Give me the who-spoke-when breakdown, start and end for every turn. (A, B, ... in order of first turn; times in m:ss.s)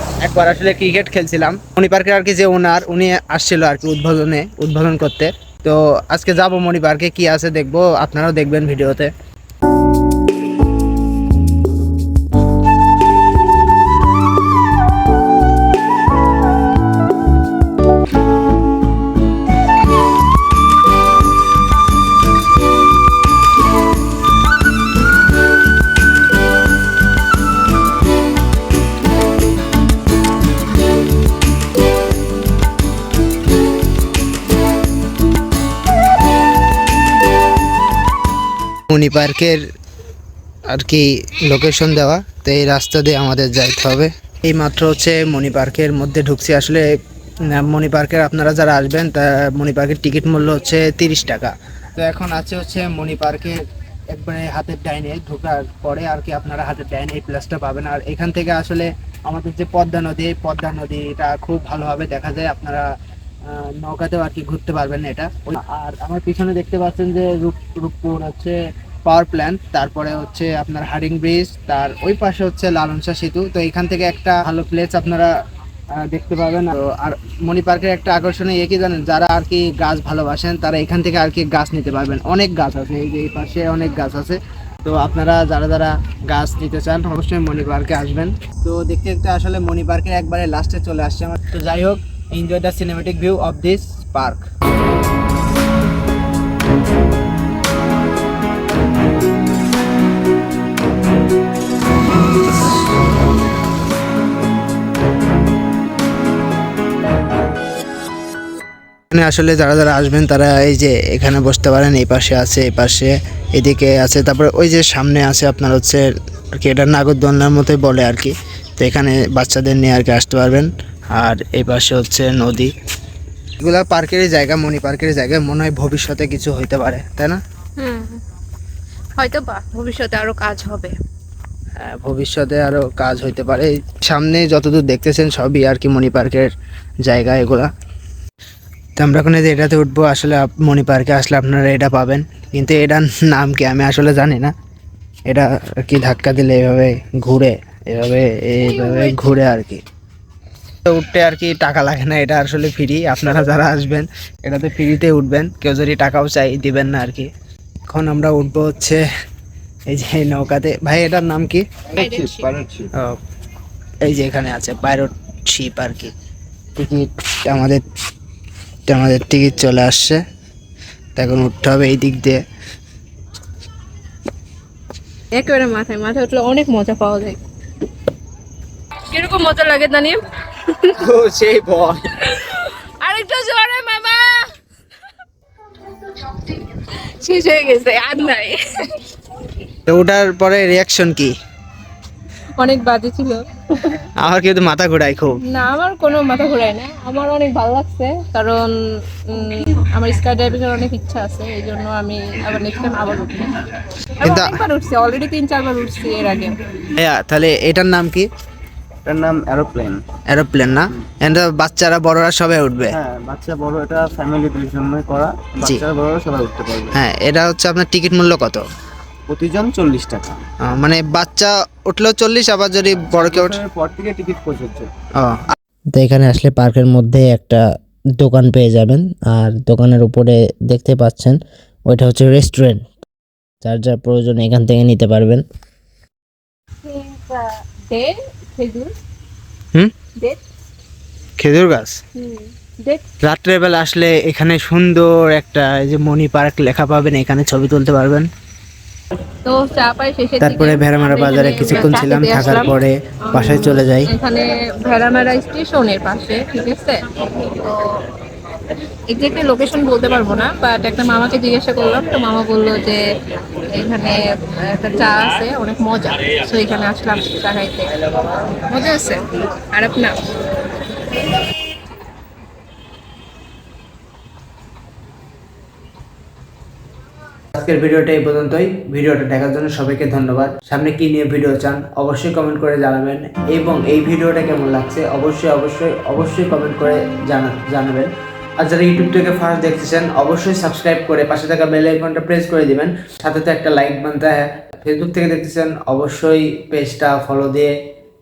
0:00.2-0:09.1 A
0:38.9-0:39.6 A
0:40.7-0:46.8 A
0:47.4-1:02.9 A
1:03.4-1:15.3 A
1:16.0-1:34.4 A
1:49.1-2:02.7 A
2:03.6-2:07.4 A
2:07.8-2:08.2 B
2:09.2-2:11.0 B
2:11.8-2:16.5 A
2:17.0-2:17.7 A
2:19.0-2:24.5 A
2:25.3-2:29.8 A
2:28.6-2:29.4 B
2:30.8-2:37.3 A
2:37.8-2:39.0 A
2:39.9-2:41.6 A
2:41.9-2:42.9 C
2:42.0-2:42.5 B
2:42.9-2:43.2 A
2:44.0-2:46.1 A
2:46.8-2:47.8 A
2:48.9-2:50.2 A
2:51.2-2:52.4 A
2:55.3-2:57.4 B
2:59.1-3:01.0 B
3:00.9-3:02.0 A
3:02.2-3:04.5 B
3:05.9-3:09.2 B
3:09.9-3:11.3 A
3:12.6-3:14.0 B
3:14.2-3:15.4 A
3:15.5-3:18.7 B
3:19.2-3:23.6 B
3:24.2-3:26.6 B
3:24.2-3:24.6 A
3:26.9-3:28.3 A
3:29.0-3:30.0 C
3:30.3-3:33.0 A
3:32.9-3:37.0 C
3:36.9-3:38.6 A
3:39.3-3:40.4 C
3:40.6-3:43.6 A
3:43.1-3:44.9 C
3:45.2-3:47.6 A
3:48.2-3:52.9 A
3:53.6-3:55.4 A
3:56.8-3:59.0 B
4:00.2-4:00.4 B
4:01.4-4:02.0 A
4:02.2-4:03.0 B
4:03.2-4:08.3 A
4:09.4-4:12.8 B
4:10.4-4:14.1 A
4:13.3-4:18.1 B
4:19.1-4:23.0 B
4:23.7-4:30.2 B
4:37.5-4:57.8 A